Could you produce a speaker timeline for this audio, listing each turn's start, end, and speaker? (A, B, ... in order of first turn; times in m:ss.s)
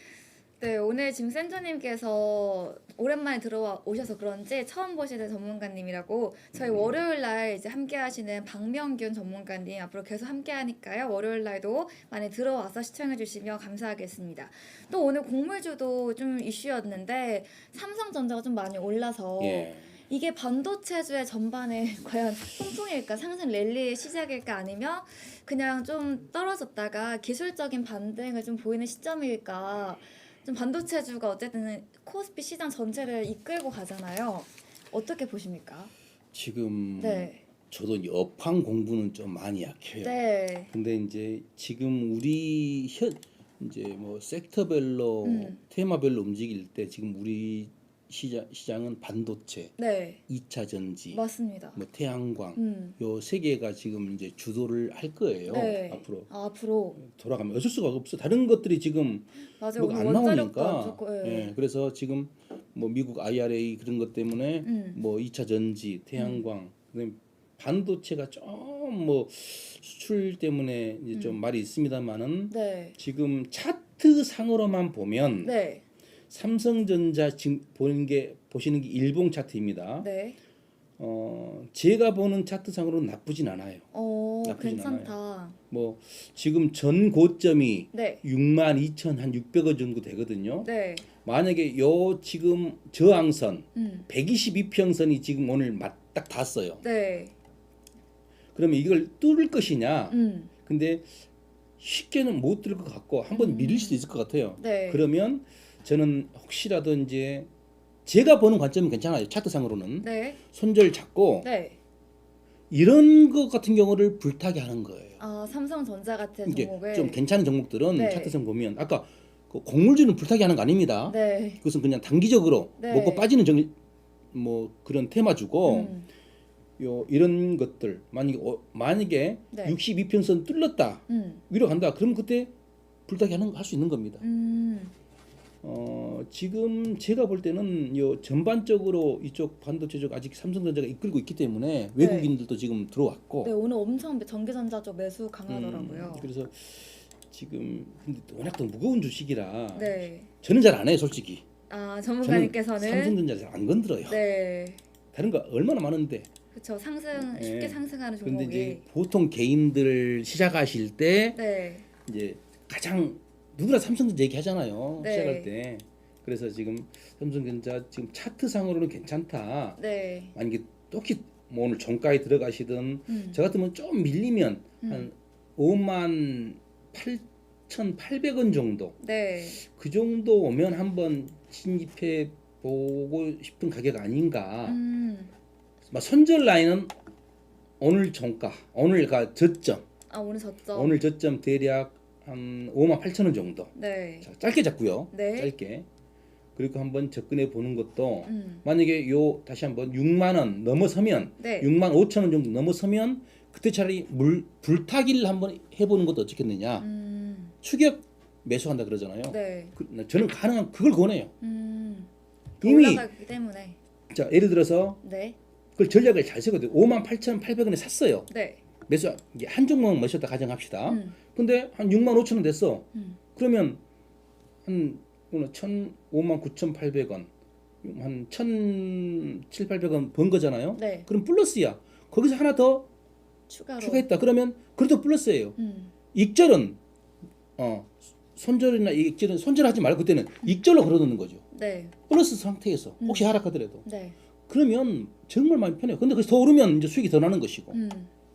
0:00.6-0:35.9 A
0:06.5-0:07.0 B
0:19.4-0:19.9 B
0:36.3-0:49.7 B
0:37.0-0:37.4 A
0:40.0-0:40.7 A
0:45.2-0:45.6 A
0:49.8-0:50.2 A
0:50.3-0:56.3 B
0:51.1-0:51.8 A
0:52.6-0:53.0 A
0:55.5-0:57.0 A
0:57.0-1:15.5 B
0:59.6-1:01.5 A
1:04.6-1:05.0 A
1:06.2-1:06.4 A
1:11.1-1:11.4 A
1:12.5-1:13.0 A
1:15.4-1:15.8 A
1:16.3-1:20.1 B
1:20.0-1:20.4 A
1:21.0-1:23.8 B
1:23.9-1:25.6 A
1:24.4-1:25.2 B
1:25.7-1:30.7 B
1:27.9-1:28.2 A
1:30.6-1:31.0 A
1:31.2-1:36.8 B
1:33.7-1:34.1 A
1:36.8-1:37.3 A
1:38.5-1:41.2 B
1:40.1-1:40.5 A
1:41.8-1:47.5 B
1:43.3-1:44.0 A
1:44.6-1:45.0 A
1:48.0-1:51.5 B
1:50.0-1:50.4 A
1:51.4-1:51.8 A
1:52.7-1:55.2 B
1:55.2-1:57.2 A
1:56.4-2:03.7 B
1:57.9-1:58.4 A
2:01.1-2:01.6 A
2:02.8-2:03.3 A
2:04.3-2:05.9 B
2:05.6-2:06.1 A
2:06.8-2:12.5 B
2:09.5-2:09.8 A
2:11.1-2:11.4 A
2:13.1-2:14.2 B
2:14.2-2:14.9 A
2:15.6-2:23.5 B
2:22.0-2:22.3 A
2:23.4-2:26.3 A
2:25.5-2:31.4 B
2:29.7-2:30.3 A
2:31.7-2:33.2 A
2:32.2-2:34.2 B
2:34.1-2:34.8 A
2:35.1-2:36.3 B
2:36.5-2:38.8 A
2:37.1-2:41.4 B
2:41.3-2:41.8 A
2:42.0-2:49.8 B
2:45.0-2:45.5 A
2:49.8-2:50.3 A
2:50.3-2:59.0 B
2:53.1-2:53.4 A
2:54.8-2:55.1 A
2:59.0-2:59.6 A
2:59.6-3:04.8 B
3:04.6-3:05.3 A
3:05.9-3:06.9 B
3:07.8-3:09.8 B
3:10.1-3:11.0 A
3:10.7-3:15.9 B
3:13.8-3:14.3 A
3:15.1-3:15.5 A
3:16.6-3:26.9 B
3:18.2-3:18.6 A
3:21.4-3:21.7 A
3:26.8-3:27.5 A
3:27.6-3:31.3 B
3:29.3-3:29.7 A
3:31.4-3:32.1 A
3:32.6-3:33.1 B
3:32.6-3:33.8 A
3:34.1-3:35.0 B
3:35.0-3:35.4 A
3:35.8-3:38.3 B
3:38.3-3:38.6 A
3:38.9-3:43.8 B
3:40.9-3:41.2 A
3:44.6-3:47.3 B
3:47.8-3:52.9 B
3:50.7-3:51.1 A
3:53.5-3:54.1 A
3:53.8-3:55.6 B
3:55.6-3:55.9 A
3:56.1-3:56.8 B
3:57.6-4:01.4 B
4:01.5-4:01.9 A
4:02.1-4:03.8 B
4:03.0-4:03.3 A
4:03.8-4:04.2 A
4:04.5-4:07.8 B
4:07.7-4:08.1 A